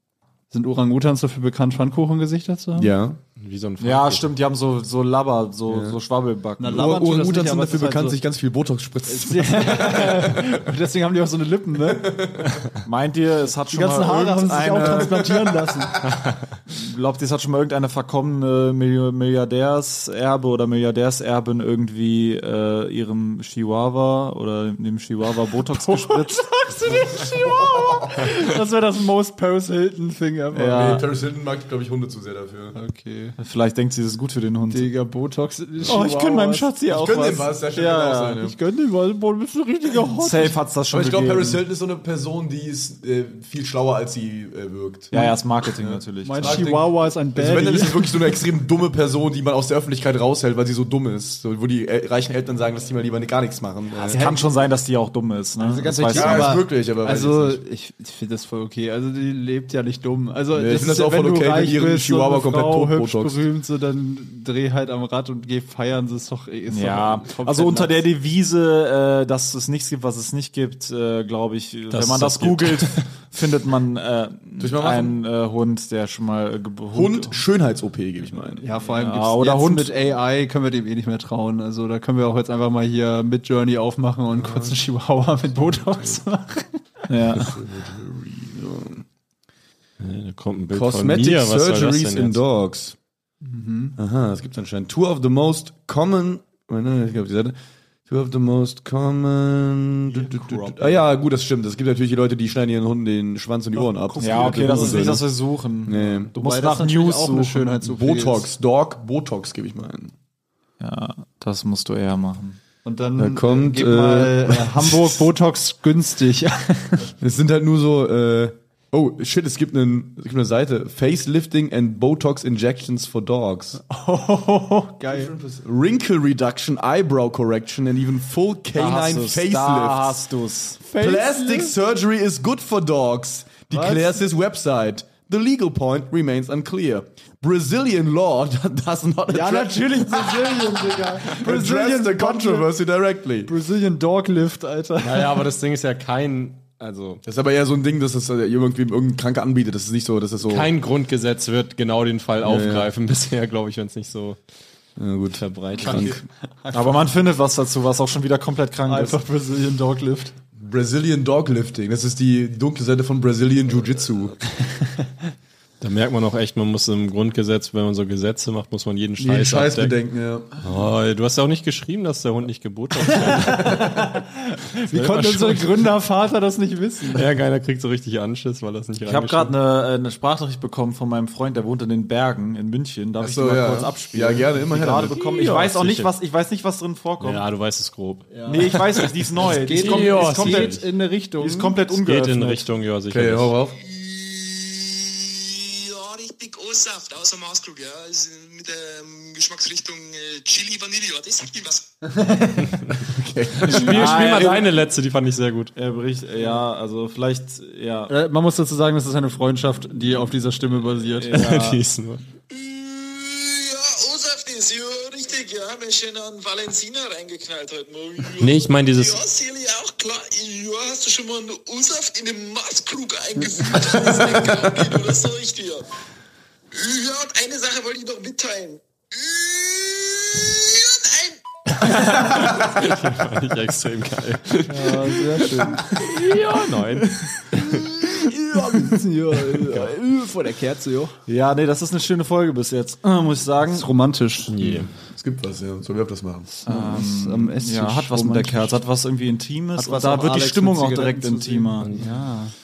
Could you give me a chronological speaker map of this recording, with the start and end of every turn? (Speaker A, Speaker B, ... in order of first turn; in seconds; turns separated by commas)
Speaker A: 0.5-2.9, Speaker B: 2.8-3.2, Speaker C: 3.4-4.3, Speaker D: 3.8-7.0, Speaker B: 5.7-6.0, Speaker A: 6.6-8.2, Speaker B: 6.7-10.6, Speaker A: 9.1-12.2, Speaker B: 11.8-12.6, Speaker D: 12.8-15.5, Speaker A: 13.7-16.0, Speaker B: 14.8-15.6, Speaker C: 16.1-16.4, Speaker D: 16.7-26.4, Speaker A: 25.8-31.0, Speaker D: 30.5-31.0, Speaker B: 30.6-32.8, Speaker A: 32.7-33.4, Speaker D: 33.4-34.9, Speaker A: 34.7-36.7, Speaker D: 35.8-38.4, Speaker B: 36.9-38.6, Speaker A: 38.4-40.5, Speaker D: 40.2-41.6, Speaker B: 40.9-45.1, Speaker D: 45.1-46.6, Speaker B: 45.8-54.3, Speaker A: 46.2-48.4, Speaker A: 54.0-54.4, Speaker D: 54.1-56.6, Speaker A: 55.6-68.0, Speaker B: 56.1-57.6, Speaker B: 60.5-63.4, Speaker D: 66.7-77.4, Speaker C: 71.9-73.1, Speaker B: 74.6-75.2, Speaker B: 76.9-78.7, Speaker A: 78.6-86.8, Speaker D: 78.9-79.9, Speaker B: 84.4-84.7, Speaker D: 87.1-87.6, Speaker B: 87.4-89.0, Speaker C: 90.0-92.4, Speaker B: 90.7-93.0, Speaker A: 93.4-94.0, Speaker B: 94.0-97.5, Speaker B: 98.1-105.2, Speaker D: 100.1-101.0, Speaker A: 103.7-105.2, Speaker D: 104.2-107.7, Speaker B: 105.8-106.3, Speaker A: 106.0-108.5, Speaker B: 107.8-110.1, Speaker D: 110.8-112.6, Speaker A: 112.8-117.1, Speaker B: 113.2-115.2, Speaker B: 117.2-123.8, Speaker A: 123.8-125.3, Speaker B: 125.1-130.2, Speaker D: 128.7-130.8, Speaker A: 130.8-131.7, Speaker B: 130.9-143.5, Speaker A: 133.7-134.2, Speaker A: 139.3-142.7, Speaker A: 143.4-145.4, Speaker C: 145.0-147.2, Speaker B: 147.2-150.7, Speaker C: 150.4-154.4, Speaker B: 152.4-152.9, Speaker B: 155.0-156.2, Speaker C: 155.3-156.2, Speaker A: 156.6-157.0, Speaker D: 156.7-159.2, Speaker A: 158.9-160.3, Speaker B: 160.6-164.4, Speaker C: 165.8-170.0, Speaker B: 169.2-170.6, Speaker C: 170.6-174.1, Speaker A: 173.2-177.3, Speaker C: 174.9-175.9, Speaker C: 177.1-179.5, Speaker D: 179.0-187.4, Speaker B: 183.2-185.5, Speaker C: 185.1-186.1, Speaker C: 187.2-189.0, Speaker A: 188.3-188.8, Speaker D: 188.4-190.8, Speaker A: 189.3-191.8, Speaker C: 189.7-190.8, Speaker D: 191.4-192.7, Speaker C: 191.9-193.5, Speaker B: 193.1-193.8, Speaker E: 193.8-201.8, Speaker A: 202.1-202.7, Speaker B: 202.9-204.3, Speaker C: 203.6-205.7, Speaker D: 203.7-204.7, Speaker D: 205.8-208.1, Speaker A: 208.1-211.4, Speaker D: 211.2-211.8, Speaker C: 211.3-212.2, Speaker E: 212.5-225.9, Speaker C: 218.4-219.2, Speaker E: 226.7-232.1, Speaker C: 231.8-238.1, Speaker A: 234.7-241.1, Speaker B: 238.6-238.9, Speaker C: 239.5-239.9, Speaker D: 241.3-243.9, Speaker A: 243.7-244.8, Speaker C: 244.5-244.9, Speaker B: 245.1-246.5, Speaker A: 246.6-248.8, Speaker D: 246.6-252.3, Speaker A: 249.8-252.5, Speaker C: 251.8-252.1